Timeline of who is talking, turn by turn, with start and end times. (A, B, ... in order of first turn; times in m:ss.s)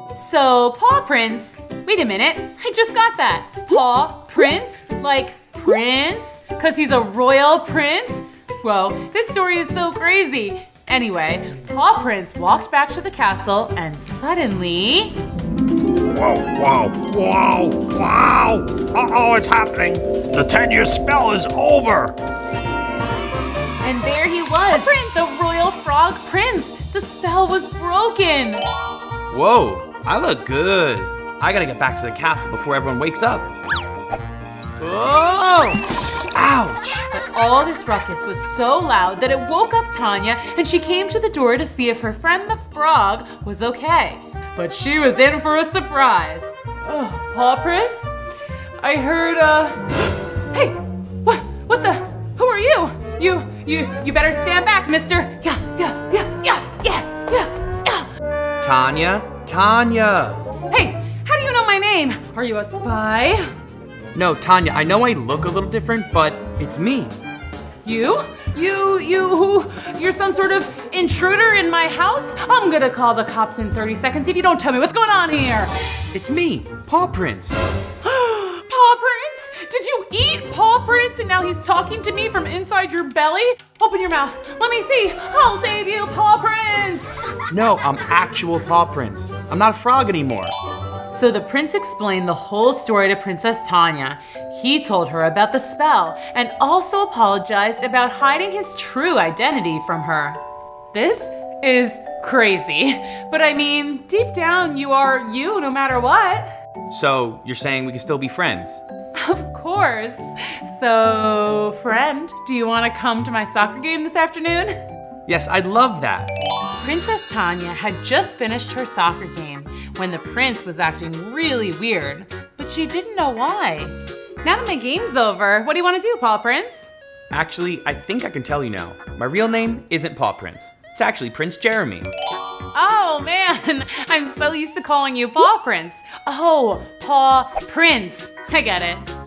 0:00.2-0:15.2 A
0:16.1-0:22.2 B
0:23.8-0:28.6 A
0:29.3-0:33.5 C
0:34.8-0:37.1 C
0:37.1-0:48.1 A
0:48.8-0:58.1 A
0:58.6-1:00.4 C
1:00.7-1:03.5 A
1:04.1-1:07.2 C
1:07.8-1:15.7 A
1:16.1-1:17.6 C
1:18.0-1:27.1 A
1:27.5-1:30.5 C
1:31.1-1:40.4 A
1:40.9-1:46.5 A
1:46.9-1:48.8 C
1:49.2-1:54.8 A
1:55.3-1:56.3 C
1:56.8-2:06.9 A
2:07.3-2:12.1 C
2:12.7-2:19.1 A